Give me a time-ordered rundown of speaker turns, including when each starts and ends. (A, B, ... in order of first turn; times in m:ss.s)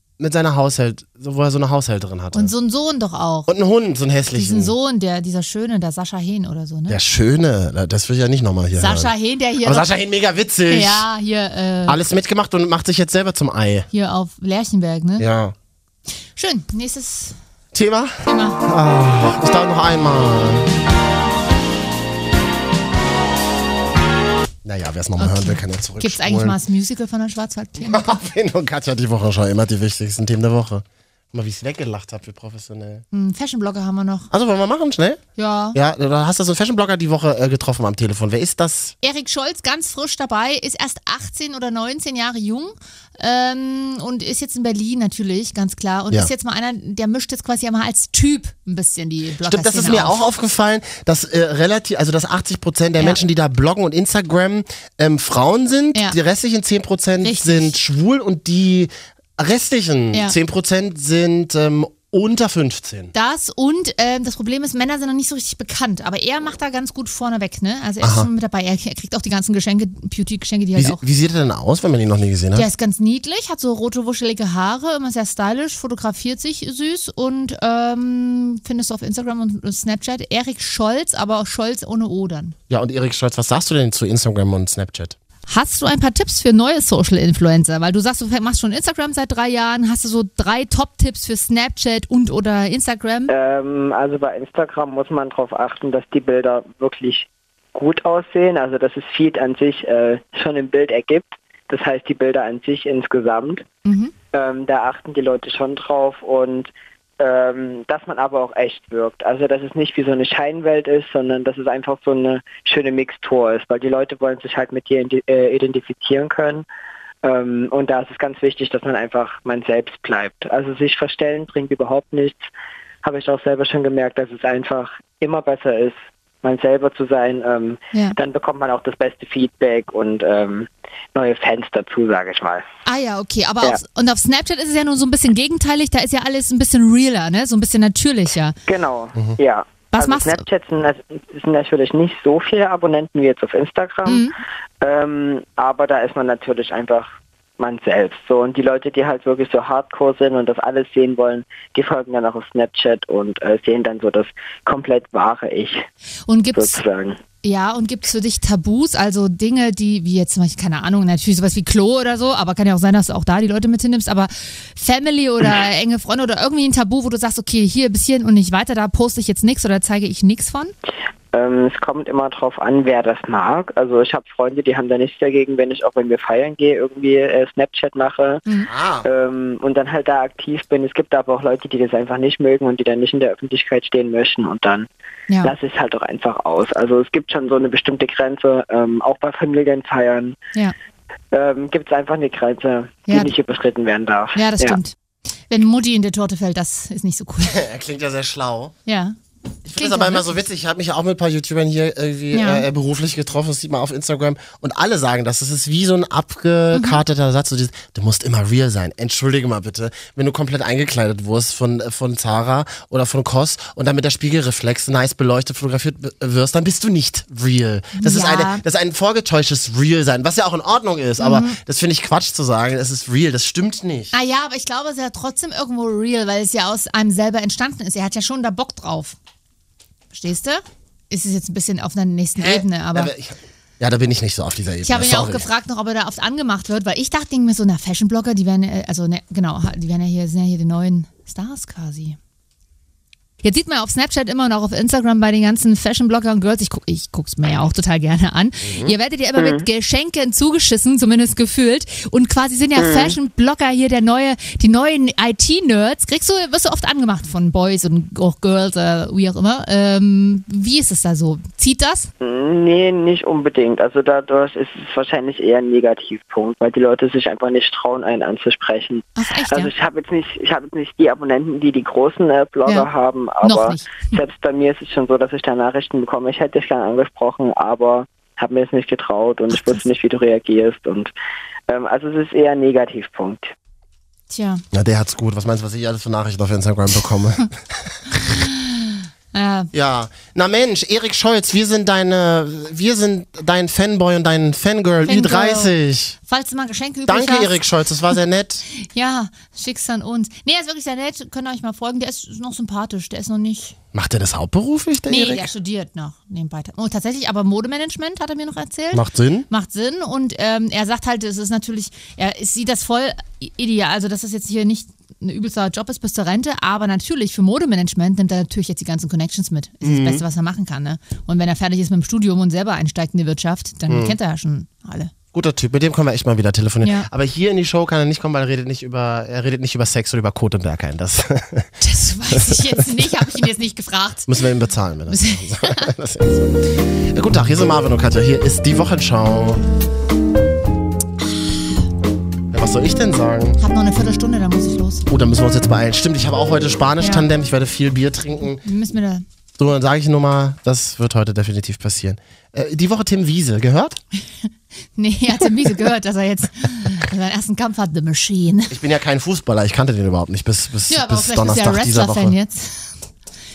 0:00.2-0:02.5 A
0:02.3-0:03.5 B
0:03.5-0:04.7 A
0:04.3-0:07.0 B
0:06.9-0:09.1 A
0:08.8-0:09.9 B
0:09.6-0:11.0 A
0:10.7-0:12.0 B
0:11.9-0:13.9 A
0:13.9-0:15.3 B
0:15.2-0:15.6 A
0:16.4-0:17.4 B
0:17.7-0:20.7 A
0:18.2-0:18.6 B
0:24.6-0:26.6 A
0:25.2-0:28.2 B
0:27.8-0:33.0 A
0:33.1-0:34.3 B
0:34.3-0:35.2 A
0:35.4-0:35.8 B
0:35.7-0:39.0 A
0:39.0-0:50.3 B
0:49.4-1:03.1 A
0:57.2-0:57.8 B
1:03.1-1:11.0 B
1:08.0-1:08.3 A
1:10.8-1:12.7 A
1:12.6-1:22.6 B
1:22.7-1:25.2 A
1:25.5-1:33.3 B
1:33.3-1:43.6 C
1:43.8-1:44.1 B
1:44.3-1:56.7 C
1:57.2-2:02.4 C
2:03.0-2:12.6 C
2:12.9-2:18.6 B
2:18.7-2:24.3 C
2:19.9-2:20.4 B
2:24.1-2:24.4 B
2:24.8-2:27.1 C
2:27.6-2:35.9 C
2:36.3-2:36.8 B
2:36.6-2:37.2 C
2:37.4-2:50.7 B
2:51.3-2:58.4 C
2:58.7-2:59.1 A
2:59.0-3:04.9 C
3:05.4-3:10.4 C
3:11.3-3:14.8 C
3:13.1-3:13.3 B
3:14.4-3:15.0 B
3:15.5-3:17.6 B
3:17.4-3:18.7 A
3:18.9-3:19.2 B
3:19.7-3:44.1 A
3:19.8-3:20.4 B
3:22.3-3:22.7 B
3:26.7-3:27.0 B
3:38.0-3:38.6 B
3:41.2-3:41.6 B
3:44.1-3:49.2 B
3:50.1-3:53.1 B
3:52.4-3:55.5 A
3:54.8-4:02.2 B
4:03.4-4:22.1 B
4:08.6-4:08.9 A
4:09.4-4:09.6 C
4:12.8-4:13.2 C
4:22.2-4:41.1 C
4:29.2-4:29.7 B
4:33.4-4:34.2 B
4:39.5-4:39.8 B
4:41.7-4:43.5 C
4:44.3-4:44.6 B
4:44.7-4:47.6 A
4:48.2-4:49.7 B
4:49.7-4:56.2 A
4:55.0-4:57.6 B
4:57.1-4:58.6 A
4:58.8-5:03.8 B
5:03.9-5:05.5 A
5:05.1-5:25.1 B
5:08.9-5:09.5 A
5:19.8-5:20.2 A
5:23.9-5:24.2 A
5:25.3-5:31.7 A
5:26.8-5:27.1 B
5:31.8-5:34.3 B
5:32.4-5:32.7 A
5:34.3-5:39.6 A
5:35.1-5:35.9 B
5:42.5-5:43.6 A
5:43.6-5:45.1 B
5:45.1-5:48.6 A
5:47.0-5:47.3 B
5:48.6-5:49.2 B
5:49.6-5:54.0 A
5:55.0-5:58.8 B
5:58.7-6:02.4 A
6:00.9-6:03.0 B